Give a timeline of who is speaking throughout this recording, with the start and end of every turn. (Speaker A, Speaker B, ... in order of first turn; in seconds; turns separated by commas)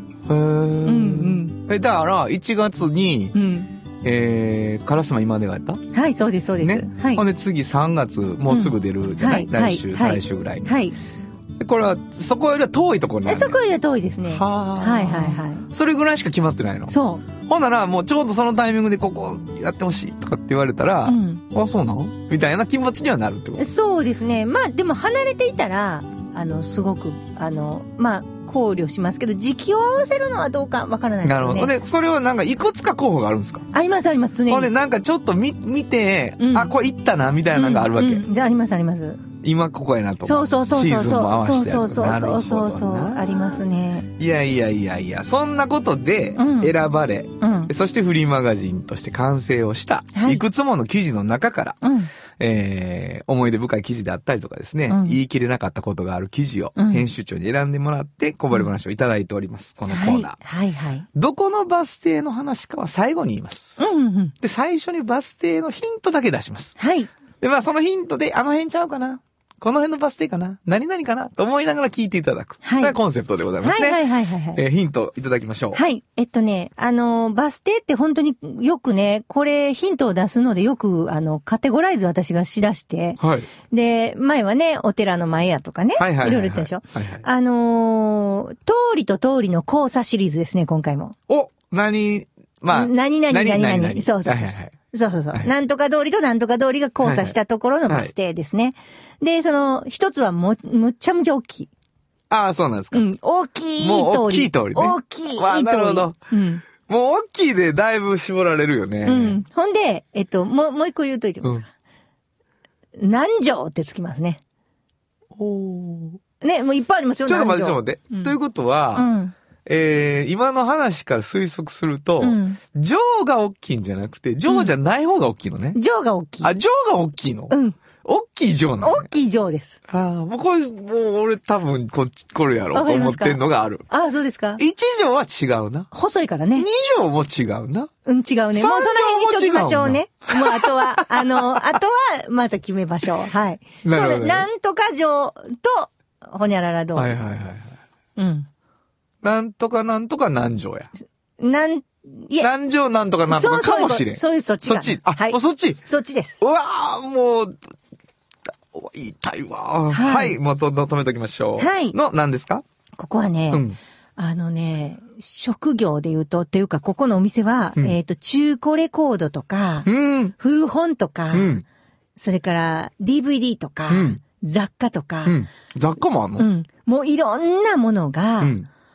Speaker A: 0.3-3.4, Speaker B: 0.8-1.6, Speaker B: 3.3-3.7, Speaker A: 4.0-5.8, Speaker B: 5.9-7.2, Speaker A: 6.6-10.8, Speaker B: 8.5-11.0, Speaker A: 11.6-13.6, Speaker B: 13.3-15.7, Speaker A: 14.3-23.7, Speaker B: 16.9-17.2, Speaker B: 21.1-21.4, Speaker B: 23.6-31.7, Speaker A: 31.2-33.7, Speaker B: 33.7-34.7, Speaker A: 34.5-38.3, Speaker B: 36.4-36.8, Speaker B: 37.5-39.2, Speaker A: 39.4-43.5, Speaker B: 40.2-44.1, Speaker A: 44.2-51.8, Speaker B: 46.4-46.8, Speaker B: 47.4-47.7, Speaker B: 50.1-50.4, Speaker B: 51.8-52.1, Speaker A: 52.4-60.4, Speaker B: 54.9-55.2, Speaker B: 56.8-57.1, Speaker B: 59.9-61.1, Speaker A: 61.1-63.8, Speaker B: 63.8-64.3, Speaker A: 64.4-66.8, Speaker B: 66.8-67.1, Speaker A: 67.4-75.8, Speaker B: 72.6-73.0, Speaker B: 73.6-74.6, Speaker B: 75.7-91.2, Speaker A: 83.2-83.5, Speaker A: 86.0-87.2, Speaker A: 91.3-94.7, Speaker B: 92.7-101.7, Speaker A: 97.0-97.4, Speaker A: 102.3-103.1, Speaker B: 102.9-106.7, Speaker A: 103.8-106.2, Speaker A: 106.7-109.4, Speaker B: 109.0-111.7, Speaker B: 113.0-114.4, Speaker A: 115.3-116.2, Speaker B: 116.4-118.3, Speaker A: 117.3-119.1, Speaker B: 119.0-119.3, Speaker A: 119.7-125.8, Speaker B: 122.2-122.6, Speaker B: 125.8-126.5, Speaker A: 126.4-129.1, Speaker B: 127.5-127.8, Speaker B: 128.8-129.8, Speaker A: 129.9-133.9, Speaker B: 132.7-134.6, Speaker A: 134.6-135.9, Speaker B: 135.9-136.7, Speaker A: 136.6-137.9, Speaker B: 138.1-147.2, Speaker A: 138.5-141.6, Speaker A: 143.8-144.5, Speaker A: 146.9-147.8, Speaker B: 148.2-148.5, Speaker A: 149.2-150.9, Speaker B: 151.4-152.5, Speaker A: 152.4-155.8, Speaker B: 153.3-156.4, Speaker A: 156.4-157.6, Speaker A: 158.7-162.6, Speaker B: 159.9-160.4, Speaker B: 161.6-162.0, Speaker B: 163.0-163.7, Speaker A: 163.5-163.8, Speaker B: 164.2-171.6, Speaker A: 169.9-170.3, Speaker A: 171.3-171.6, Speaker B: 172.2-175.4, Speaker A: 173.9-174.2, Speaker A: 175.2-176.5, Speaker B: 176.4-178.5, Speaker A: 178.4-178.7